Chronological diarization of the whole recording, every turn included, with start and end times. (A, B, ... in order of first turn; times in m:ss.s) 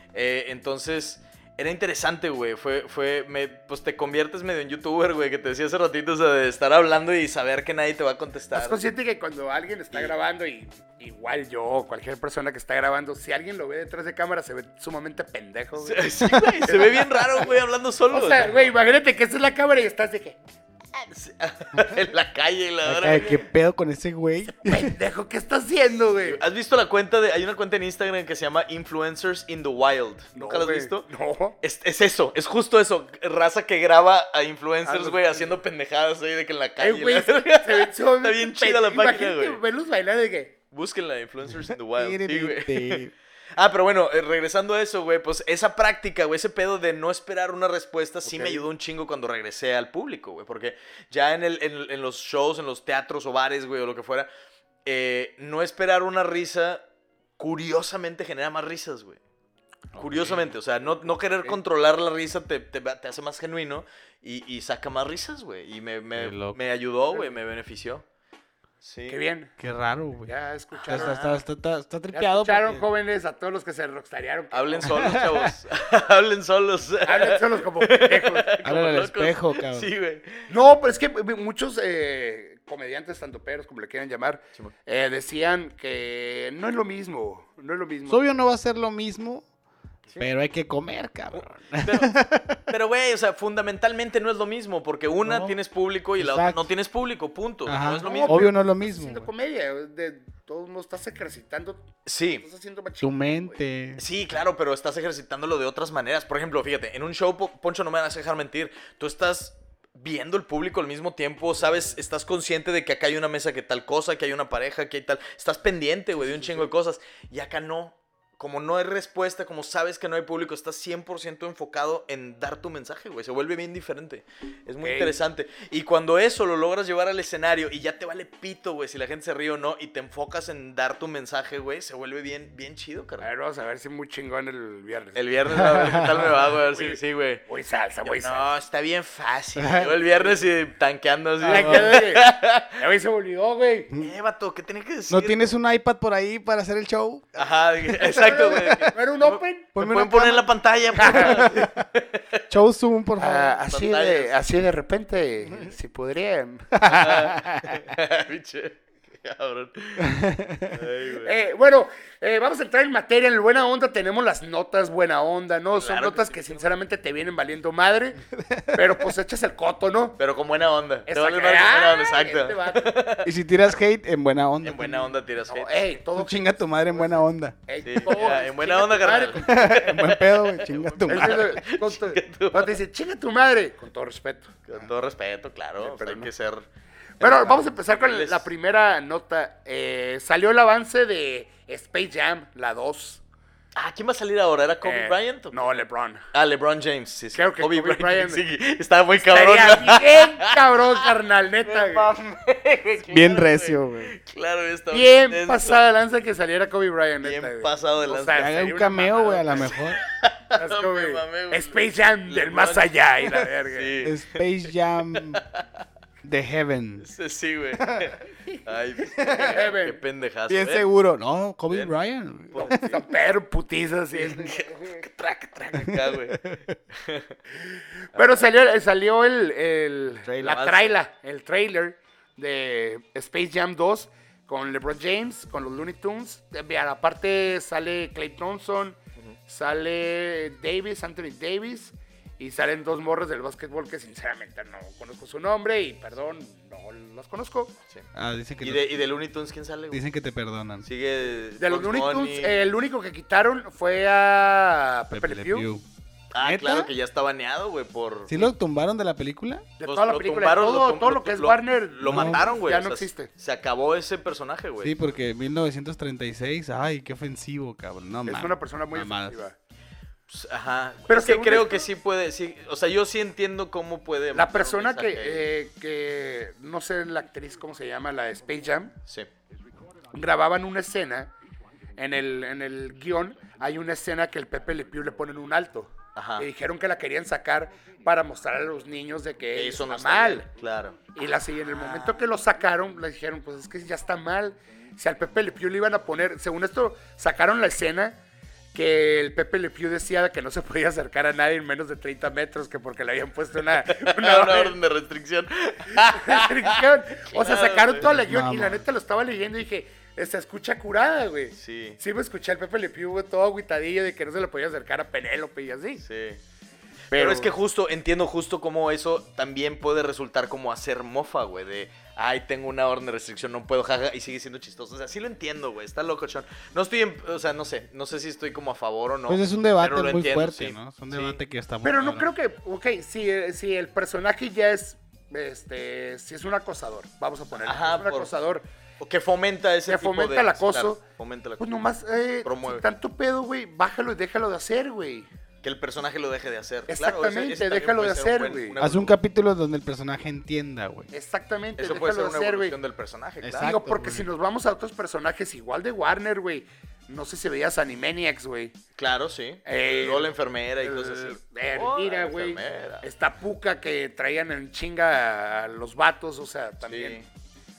0:00.1-0:08.8 A
0:08.5-0:16.1 B
0:15.8-0:18.7 A
0:16.3-0:16.7 C
0:16.6-0:17.5 B
0:18.1-0:20.4 B
0:20.9-0:23.4 A
0:22.8-0:24.9 C
0:24.6-0:26.4 B
0:26.2-0:31.1 A
0:30.3-0:31.6 B
0:31.6-0:39.6 A
0:34.8-0:35.5 B
0:36.8-0:40.5 B
0:40.7-0:54.3 A
0:42.0-0:43.1 C
0:48.2-0:48.6 B
0:54.8-0:56.8 A
0:57.4-0:59.2 A
1:00.0-1:08.0 A
1:00.0-1:00.4 C
1:00.9-1:01.6 B
1:06.2-1:06.6 C
1:07.1-1:07.4 B
1:08.8-1:09.2 A
1:09.1-1:09.5 B
1:09.6-1:10.3 C
1:10.2-1:11.2 B
1:10.8-1:11.4 A
1:10.9-1:12.8 C
1:12.1-1:15.2 B
1:14.5-1:20.5 A
1:15.0-1:15.5 C
1:17.0-1:18.7 B
1:18.6-1:19.9 C
1:20.5-1:28.2 B
1:28.1-1:29.4 C
1:30.2-1:32.6 C
1:31.3-1:38.5 A
1:35.2-1:35.5 C
1:36.2-1:36.7 C
1:37.6-1:39.3 C
1:38.0-1:41.8 B
1:42.0-1:42.4 A
1:42.4-1:43.6 B
1:43.0-1:44.0 C
1:44.0-2:13.3 A
1:56.2-1:56.7 B
2:04.8-2:05.1 B
2:13.2-2:15.2 B
2:15.1-2:17.4 A
2:15.5-2:16.2 C
2:16.6-2:18.5 B
2:18.0-2:22.8 A
2:19.6-2:20.0 C
2:21.4-2:23.9 B
2:21.4-2:21.9 C
2:24.0-2:25.5 A
2:25.1-2:28.9 C
2:27.3-2:32.4 A
2:28.1-2:29.7 B
2:29.7-2:31.8 C
2:31.0-2:31.5 B
2:32.5-2:33.6 C
2:33.2-2:36.7 B
2:33.7-2:34.4 A
2:36.7-2:37.8 C
2:36.8-2:41.4 A
2:40.0-2:40.8 C
2:41.2-2:48.2 B
2:45.7-2:46.6 A
2:48.4-2:48.9 C
2:48.7-2:50.2 B
2:50.2-2:53.3 A
2:51.1-2:53.0 B
2:53.2-2:55.2 C
2:54.6-2:56.0 A
2:55.5-2:59.6 B
2:56.2-2:57.6 C
2:57.8-3:02.8 A
2:59.4-3:01.6 C
3:01.1-3:04.6 B
3:04.7-3:06.7 A
3:05.8-3:06.3 B
3:07.2-3:08.5 A
3:07.2-3:13.2 B
3:13.7-3:21.1 A
3:14.8-3:16.2 B
3:17.3-3:18.4 B
3:19.2-3:22.1 B
3:21.6-3:25.8 A
3:23.1-3:24.1 C
3:24.9-3:29.7 B
3:27.2-3:35.6 A
3:28.3-3:30.0 C
3:30.5-3:34.0 B
3:34.0-3:35.4 C
3:36.2-3:37.1 C
3:37.0-3:40.8 A
3:39.2-3:39.4 C
3:39.2-3:40.0 B
3:40.5-3:42.9 C
3:42.5-3:43.0 A
3:42.7-3:45.0 B
3:44.1-3:47.3 A
3:45.7-3:46.8 C
3:47.6-4:07.7 B
3:50.2-3:50.6 C
3:50.4-3:51.0 A
4:08.1-4:09.0 C
4:08.6-4:10.0 A
4:09.9-4:10.8 C
4:10.8-4:12.6 A
4:11.6-4:15.7 B
4:15.1-4:15.8 C
4:16.3-4:18.5 A
4:16.4-4:16.9 C
4:18.3-4:19.6 C
4:19.8-4:23.3 B
4:19.8-4:25.0 A
4:22.0-4:22.5 C
4:24.8-4:29.4 C
4:28.2-4:29.6 B
4:30.3-4:35.5 A
4:31.1-4:31.8 B
4:34.3-4:38.9 B
4:40.1-4:41.3 B
4:42.0-4:50.5 B
4:46.1-4:46.4 A
4:49.6-4:51.1 A
4:51.1-4:58.2 B
4:51.8-4:52.1 A
4:58.7-5:04.8 B
5:03.8-5:08.1 A
5:05.9-5:16.0 B
5:08.0-5:08.8 C
5:11.6-5:12.0 A
5:16.0-5:16.4 A
5:17.1-5:31.4 A
5:17.1-5:17.5 B
5:29.3-5:32.3 C
5:31.8-5:38.7 B
5:37.6-5:38.3 A
5:39.0-5:41.7 A
5:39.9-5:41.0 B
5:41.6-5:45.3 B
5:42.4-5:42.8 A
5:45.6-5:49.2 A
5:46.9-5:48.7 B
5:48.8-5:51.1 C
5:51.1-5:52.8 B
5:51.8-5:53.7 A
5:53.4-5:54.3 C
5:53.6-5:58.8 B
5:59.0-6:03.0 A
5:59.6-6:07.2 B
6:06.8-6:07.2 A